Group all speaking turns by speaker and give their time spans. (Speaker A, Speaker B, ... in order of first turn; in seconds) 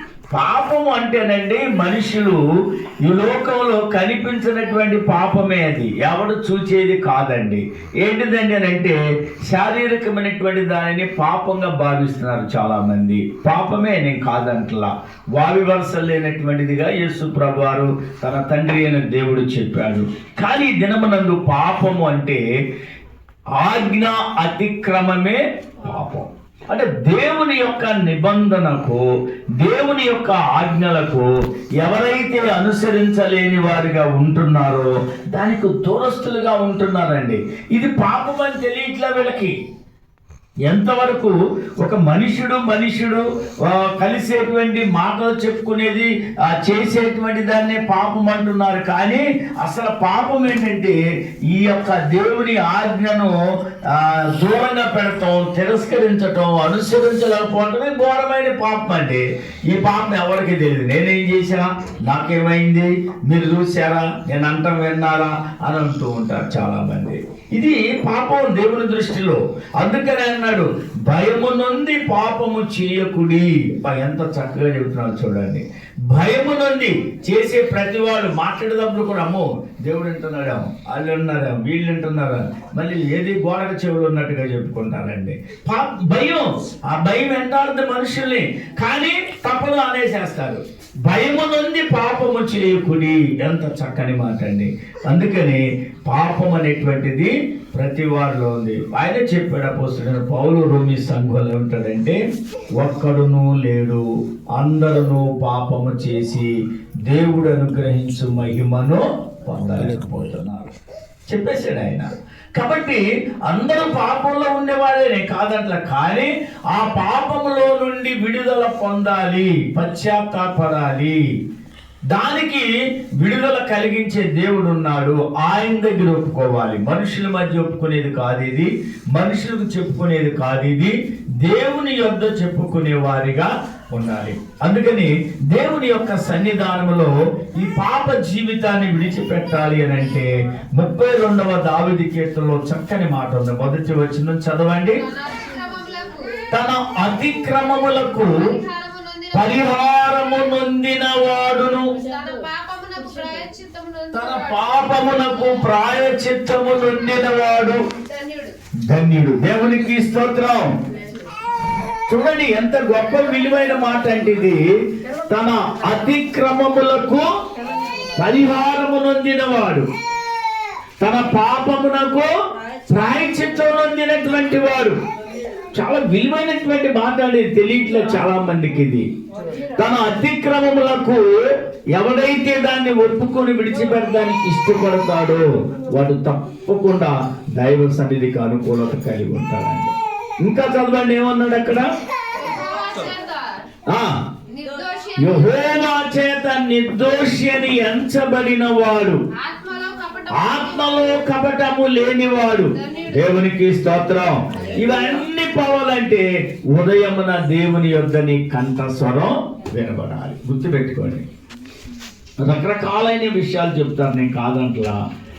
Speaker A: 0.3-2.4, 3.1-22.4, 23.6-29.0, 29.6-31.3, 31.8-39.5, 40.7-51.0, 51.5-102.2, 102.8-104.0, 104.5-106.5, 107.1-110.7, 111.3-121.2, 122.1-145.0, 146.5-148.6, 149.3-152.0, 154.1-157.8, 158.9-160.7, 162.1-164.7, 165.3-167.3, 168.2-169.9, 171.0-172.3, 172.9-175.0, 175.8-179.1, 179.8-191.8, 193.9-194.2, 195.2-199.2, 200.3-211.3, 212.4-215.0
Speaker B: 145.4-146.2, 148.8-149.1, 152.1-154.1, 158.2-158.5, 192.4-193.5, 194.6-195.2, 199.4-200.3